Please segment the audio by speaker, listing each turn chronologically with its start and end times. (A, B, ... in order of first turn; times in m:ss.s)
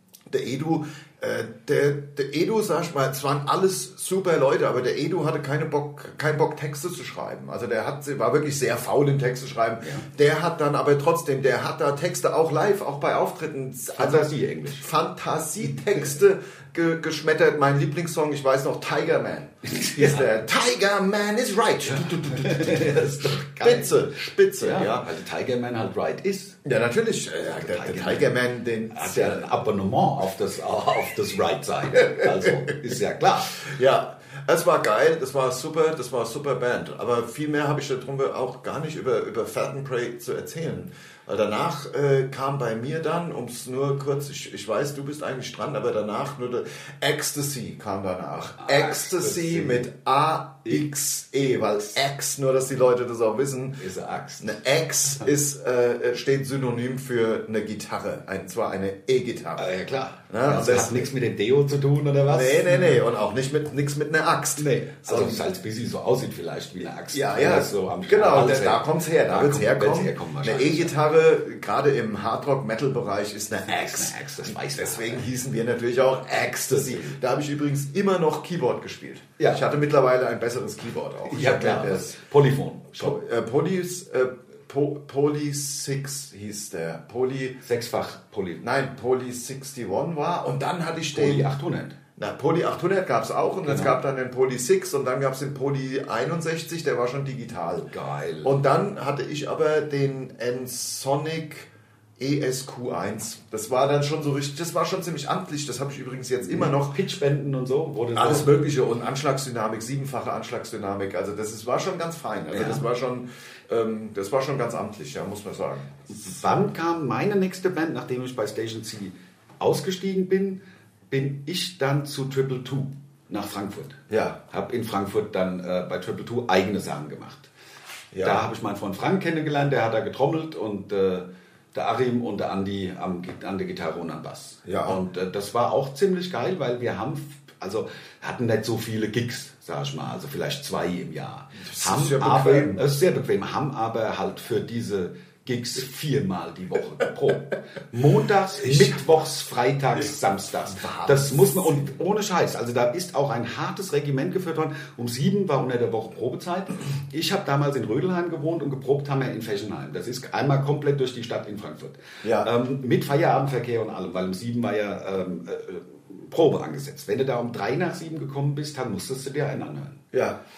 0:00.3-0:25.1 A
0:14.0-0:14.9 B
0:19.7-0:20.3 B
0:21.8-0:26.6 B
0:26.6-0:29.5 A
0:27.4-0:28.4 B
0:28.9-0:33.6 B
0:33.6-0:53.8 A
0:48.6-0:49.9 B
0:53.8-0:54.5 B
0:54.4-0:59.7 A
0:59.6-1:03.0 B
1:00.3-1:01.1 A
1:02.3-1:05.4 A
1:04.6-1:11.0 B
1:07.1-1:22.2 A
1:13.7-1:15.3 B
1:21.3-1:23.2 B
1:22.9-1:27.6 A
1:27.6-1:28.6 B
1:28.6-1:31.5 A
1:31.1-1:32.0 B
1:32.2-1:37.9 A
1:33.7-1:34.0 B
1:37.9-1:38.6 B
1:38.4-1:47.0 A
1:46.4-1:48.5 B
1:48.2-1:56.0 A
1:52.5-1:52.8 B
1:56.1-2:07.5 B
2:04.1-2:04.4 A
2:08.1-2:08.4 A
2:08.2-2:50.0 B
2:14.7-2:15.0 A
2:21.6-2:22.9 A
2:28.6-2:28.9 A
2:30.7-2:31.8 A
2:42.2-2:42.5 A
2:50.1-2:50.4 A